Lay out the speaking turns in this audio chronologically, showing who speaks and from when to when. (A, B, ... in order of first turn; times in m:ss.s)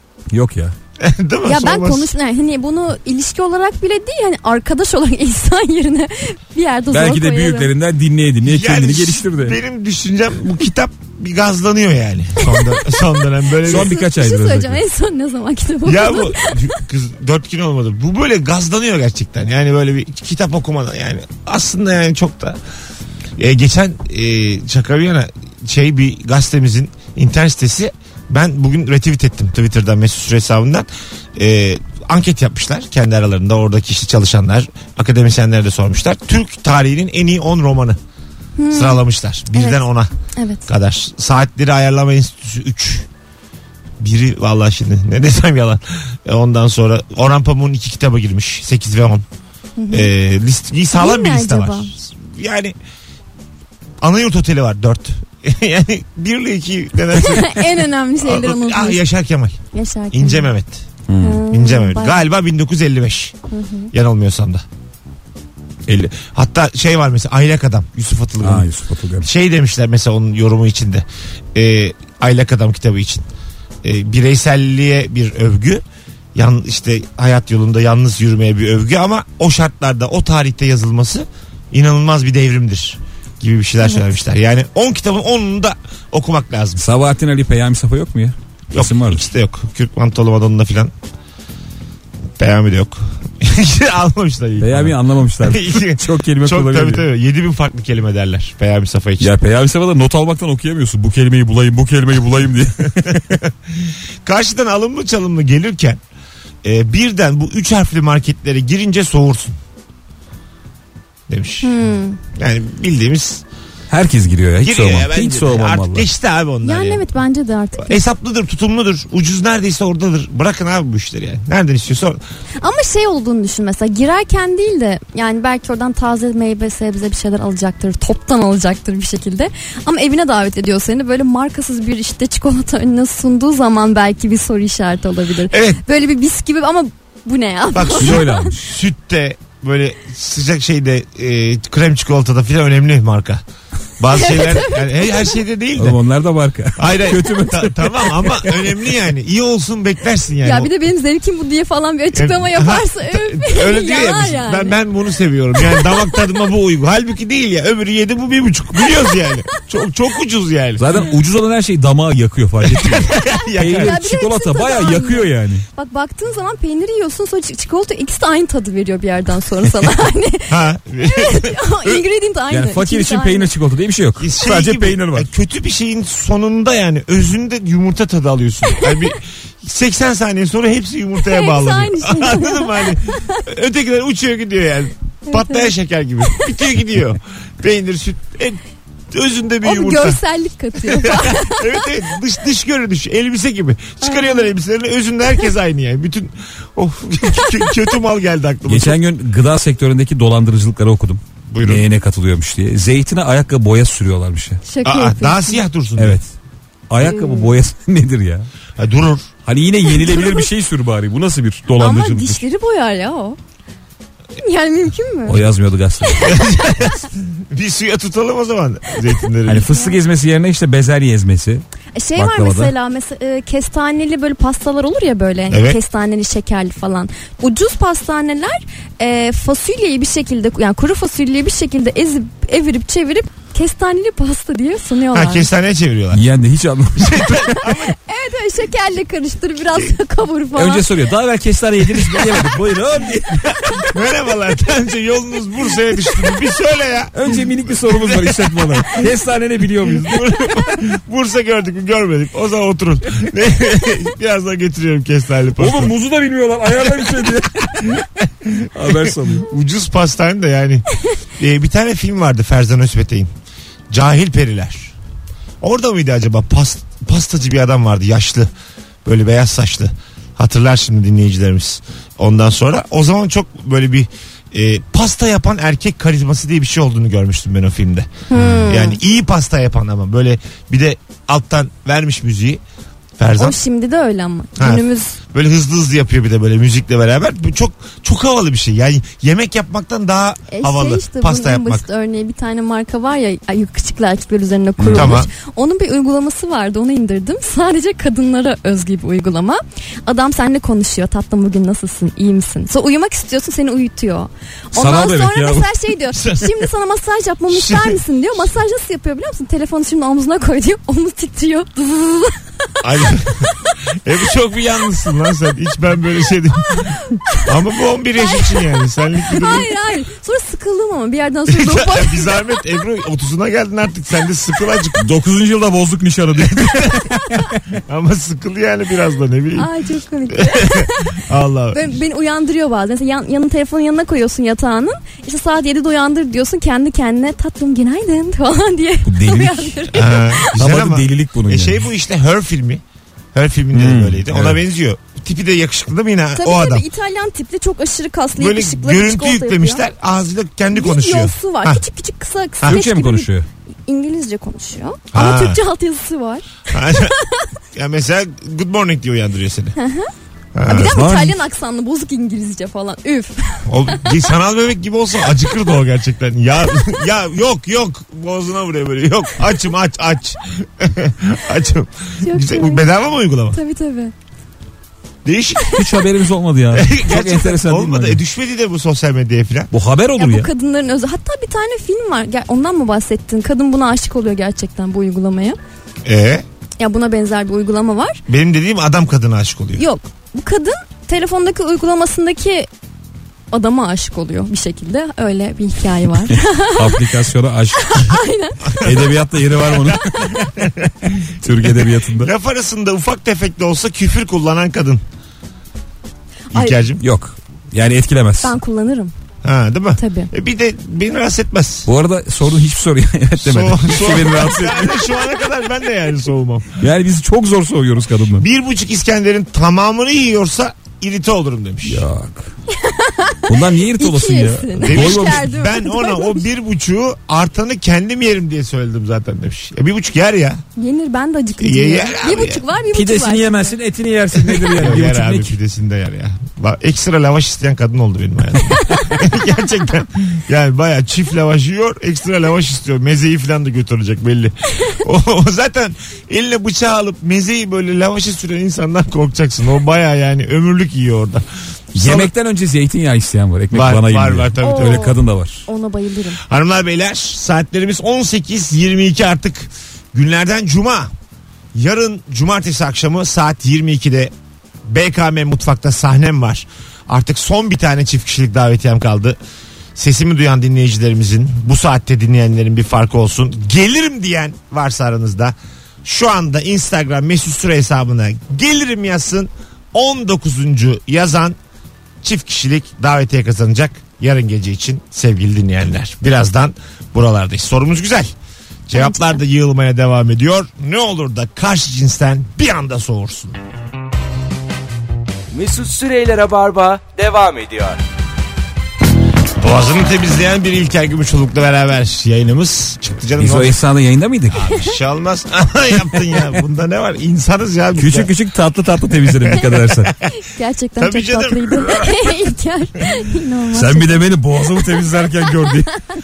0:00.3-0:00.7 A
0:01.0-0:02.1 B
0:01.4-0:07.7 C
0:06.9-0:09.6 A
0:08.4-0:14.0 B
0:13.6-0:14.8 A
0:13.6-0:16.8 C
0:15.8-0:22.6 B
0:23.4-0:38.0 B
0:38.6-0:39.0 C
0:38.7-0:40.1 B
0:39.5-0:39.8 C
0:40.4-0:40.7 C
0:40.7-0:43.1 B
0:44.0-0:49.2 B
0:49.8-0:50.1 C
0:49.9-0:52.8 B
0:50.9-0:51.9 C
0:54.0-0:59.6 B
0:57.1-0:59.0 C
0:59.7-1:00.5 C
1:00.1-1:00.8 B
1:01.1-1:01.4 A
1:01.2-1:02.2 C
1:01.5-1:03.3 B
1:03.5-1:03.9 C
1:03.9-1:04.6 B
1:05.9-1:08.7 B
1:08.4-1:09.3 A
1:09.2-1:13.2 B
1:13.8-1:15.8 B
1:16.3-1:26.8 B
1:26.8-1:29.2 A
1:28.7-1:30.9 B
1:32.4-1:39.3 B
1:34.6-1:37.0 A
1:39.2-1:43.2 A
1:42.9-1:46.0 B
1:46.6-1:49.6 B
1:51.3-1:51.8 B
1:51.6-1:52.2 C
1:52.3-1:53.4 B
1:53.9-1:56.1 A
1:54.6-1:57.1 B
1:56.6-1:58.0 C
1:57.8-2:02.2 B
2:02.6-2:18.5 C
2:15.5-2:15.8 B
2:17.7-2:23.4 B
2:18.0-2:18.7 A
2:24.0-2:26.0 B
2:24.1-2:25.4 C
2:25.8-2:28.5 A
2:26.8-2:30.7 B
2:30.4-2:34.8 C
2:32.1-2:40.9 B
2:35.6-2:36.0 C
2:38.8-2:39.3 C
2:40.8-2:45.6 A
2:42.6-2:44.0 B
2:43.8-2:53.5 C
2:50.5-2:52.0 B
2:52.5-2:55.3 A
2:54.2-3:10.2 B
2:58.7-2:58.9 C
3:01.2-3:03.4 C
3:05.3-3:05.7 C
3:06.2-3:06.5 C
3:09.6-3:11.9 C
3:10.8-3:19.0 B
3:14.0-3:14.5 C
3:18.6-3:24.6 A
3:21.5-3:21.8 B
3:24.6-3:25.6 C
3:24.8-3:26.2 B
3:26.0-3:26.3 A
3:26.9-3:28.5 A
3:27.0-3:27.5 C
3:28.8-3:29.3 B
3:29.4-3:32.4 A
3:29.8-3:30.5 C
3:31.8-3:33.4 C
3:34.4-3:35.4 C
3:35.3-3:36.3 A
3:36.1-3:37.0 C
3:36.2-3:39.7 B
3:39.4-3:41.6 A
3:39.6-3:40.0 C
3:41.9-3:55.5 C
3:42.2-3:42.7 A
3:45.5-3:45.8 B
3:55.1-3:56.2 B
3:56.1-3:57.5 A
3:56.9-3:57.9 B
3:57.6-4:00.8 C
4:00.5-4:03.9 A
4:01.8-4:02.6 B
4:03.4-4:09.0 B
4:07.1-4:10.2 A
4:09.8-4:15.9 B
4:15.6-4:18.0 A
4:18.0-4:20.8 B
4:18.7-4:19.5 A
4:21.4-4:23.3 B
4:23.9-4:24.9 B
4:25.6-4:28.5 B
4:29.0-4:38.1 B
4:38.3-4:39.0 C
4:38.3-4:38.6 A
4:38.6-4:42.6 B
4:43.2-4:43.6 B
4:43.4-4:45.2 C
4:44.6-4:51.8 B
4:50.5-5:12.7 C
4:54.8-4:55.2 A
4:54.9-4:55.3 B
5:04.7-5:05.7 A
5:06.1-5:06.6 B
5:07.5-5:08.0 B
5:12.8-5:19.7 B
5:16.7-5:17.5 C
5:18.2-5:22.5 C
5:21.5-5:25.0 B
5:25.0-5:27.5 A
5:26.5-5:27.1 B
5:27.7-5:29.7 B
5:29.5-5:40.5 C
5:30.3-5:32.0 B
5:39.0-5:40.0 A
5:39.9-5:42.8 B
5:40.5-5:41.9 A
5:43.3-5:46.8 B
5:43.7-5:44.6 A
5:46.4-5:49.8 C
5:48.4-5:51.8 B
5:50.7-5:53.3 C
5:52.6-5:53.4 A
5:53.9-5:57.4 C
5:55.1-5:55.6 B
5:56.7-5:57.2 B
5:57.7-5:59.7 B
5:59.8-6:00.1 C
6:00.5-6:01.0 B
6:00.6-6:04.3 C
6:00.8-6:01.4 A
6:03.6-6:13.6 B
6:12.2-6:12.8 C
6:13.5-6:14.1 C
6:15.2-6:15.8 B
6:15.7-6:18.2 A
6:16.7-6:19.7 B
6:19.7-6:20.5 A
6:20.2-6:25.6 C
6:26.0-6:26.4 B
6:26.8-6:28.2 C
6:28.3-6:29.8 B
6:29.8-6:32.7 C
6:33.5-6:37.1 C
6:36.7-6:38.0 A
6:37.8-6:38.9 C
6:38.6-6:45.0 B
6:38.8-6:40.5 A
6:41.3-6:42.3 A
6:46.5-6:47.0 B
6:47.0-6:48.5 A
6:48.4-6:49.1 C
6:49.4-6:51.9 B
6:50.0-6:50.3 C
6:51.9-6:55.1 A
6:53.4-6:56.8 B
6:56.8-6:58.4 A
6:58.4-7:02.0 B
7:01.8-7:02.5 A
7:02.7-7:06.4 C
7:03.5-7:05.5 A
7:04.8-7:10.6 B
7:10.8-7:13.7 C
7:11.6-7:12.6 B
7:12.9-7:15.6 A
7:14.3-7:32.3 B
7:18.8-7:19.2 C
7:31.9-7:35.6 A
7:33.7-7:35.1 B
7:34.6-7:36.4 C
7:36.4-7:41.1 B
7:41.7-7:44.3 B
7:44.9-7:49.4 B
7:50.0-8:01.6 B
8:02.2-8:08.3 B
8:08.9-8:13.6 B
8:08.9-8:09.4 C
8:15.5-8:18.0 D
8:19.6-8:23.8 B
8:23.4-8:24.6 A
8:24.5-8:28.3 B
8:27.9-8:30.1 A
8:29.4-8:30.2 B
8:30.3-8:34.2 C
8:31.0-8:32.1 B
8:33.7-8:35.9 A